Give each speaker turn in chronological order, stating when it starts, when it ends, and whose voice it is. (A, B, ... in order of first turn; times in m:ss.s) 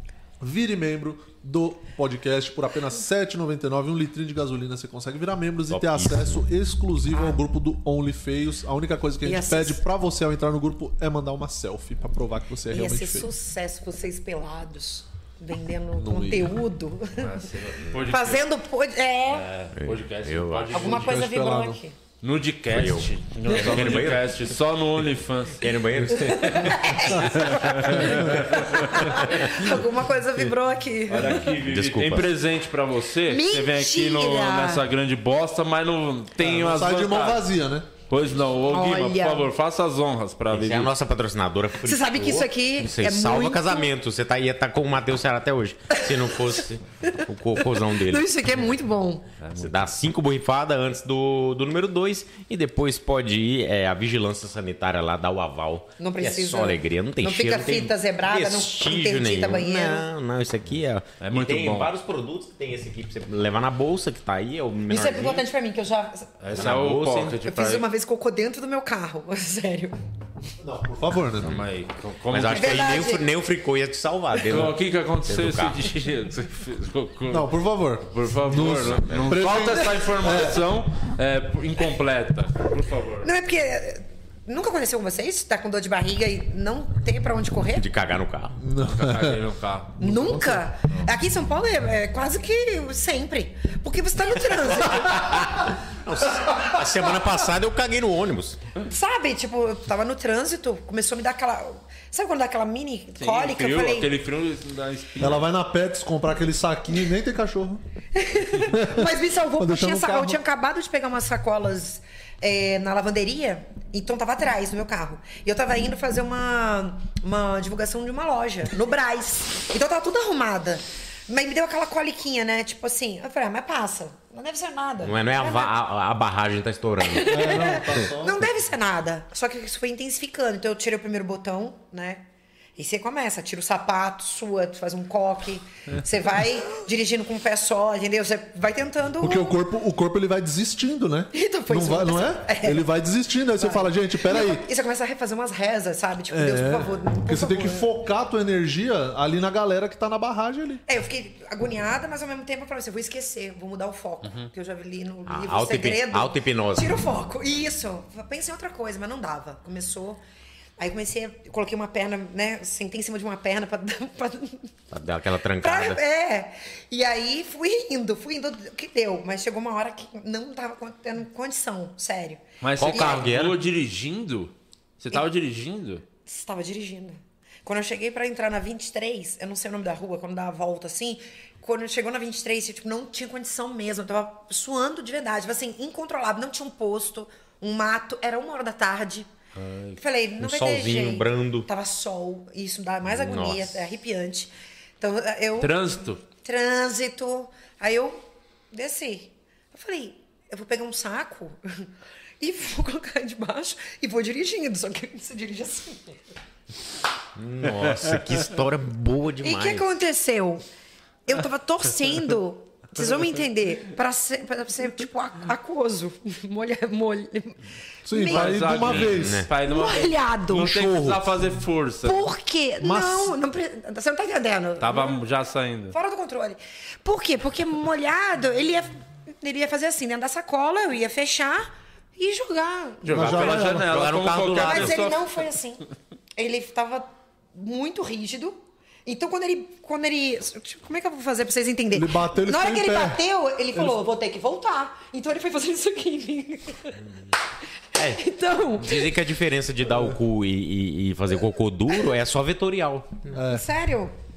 0:00.4-0:13.3 A
0:05.7-0:06.4 B
0:09.2-0:09.8 C
0:12.7-0:17.5 C
0:15.9-0:16.6 A
0:17.2-0:18.4 D
0:18.0-0:19.5 C
0:19.3-0:21.2 D
0:19.7-0:20.8 B
0:20.7-0:22.0 C
0:20.8-0:21.8 A
0:22.2-0:29.7 D
0:22.7-0:24.6 B
0:25.6-0:28.0 B
0:26.1-0:31.5 C
0:28.0-0:28.4 A
0:29.0-0:29.4 B
0:31.1-0:37.5 D
0:31.4-0:32.3 B
0:33.3-0:34.8 C
0:36.4-0:37.9 A
0:38.0-0:40.9 D
0:38.7-0:39.5 C
0:40.5-0:48.4 B
0:41.8-0:43.9 C
0:45.9-0:46.6 C
0:47.8-0:49.3 C
0:49.4-0:49.9 D
0:49.6-1:05.4 B
0:56.0-1:00.1 C
1:01.2-1:01.9 D
1:04.9-1:06.4 C
1:06.4-1:07.8 D
1:06.5-1:07.4 B
1:07.4-1:09.9 C
1:10.6-1:11.5 A
1:11.4-1:11.7 B
1:11.4-1:13.1 D
1:12.3-1:15.8 B
1:12.5-1:13.3 C
1:14.4-1:17.5 D
1:17.3-1:20.6 A
1:18.0-1:23.3 D
1:18.5-1:19.6 B
1:23.2-1:27.9 C
1:27.7-1:28.6 B
1:28.6-1:29.4 A
1:28.8-1:30.0 D
1:30.0-1:30.6 A
1:30.0-1:35.6 C
1:34.8-1:38.6 B
1:38.8-1:44.1 C
1:43.2-1:45.5 D
1:45.2-1:47.8 A
1:48.1-2:05.8 C
1:48.6-1:50.4 A
2:05.0-2:07.8 B
2:07.0-2:12.2 C
2:07.2-2:08.5 A
2:12.8-2:19.5 C
2:19.2-2:24.6 A
2:21.3-2:22.9 C
2:23.6-2:27.9 C
2:26.3-2:30.8 A
2:30.9-2:40.2 C
2:35.3-2:36.9 B
2:40.8-2:44.7 C
2:44.9-2:46.0 B
2:45.6-2:53.2 C
2:52.6-2:56.0 D
2:52.8-2:53.6 B
2:56.2-3:09.3 C
3:09.6-3:10.0 D
3:10.0-3:26.2 C
3:10.4-3:11.7 B
3:13.0-3:13.8 B
3:15.6-3:16.2 D
3:27.3-3:29.9 B
3:29.4-3:30.6 C
3:31.2-3:39.0 C
3:38.0-3:39.4 A
3:38.2-3:42.2 D
3:38.9-3:39.5 B
3:39.6-3:40.8 C
3:40.6-3:41.3 A
3:42.0-3:45.2 C
3:42.8-3:43.3 A
3:44.8-3:46.0 D
3:45.9-3:53.6 C
3:53.0-3:55.3 D
3:53.1-3:53.9 A
3:53.4-3:55.1 B
3:54.5-3:55.8 C
3:56.4-4:07.0 C
4:01.9-4:03.2 A
4:07.9-4:09.2 C
4:08.0-4:08.2 B
4:08.8-4:13.3 B
4:13.3-4:13.6 A
4:13.3-4:14.1 C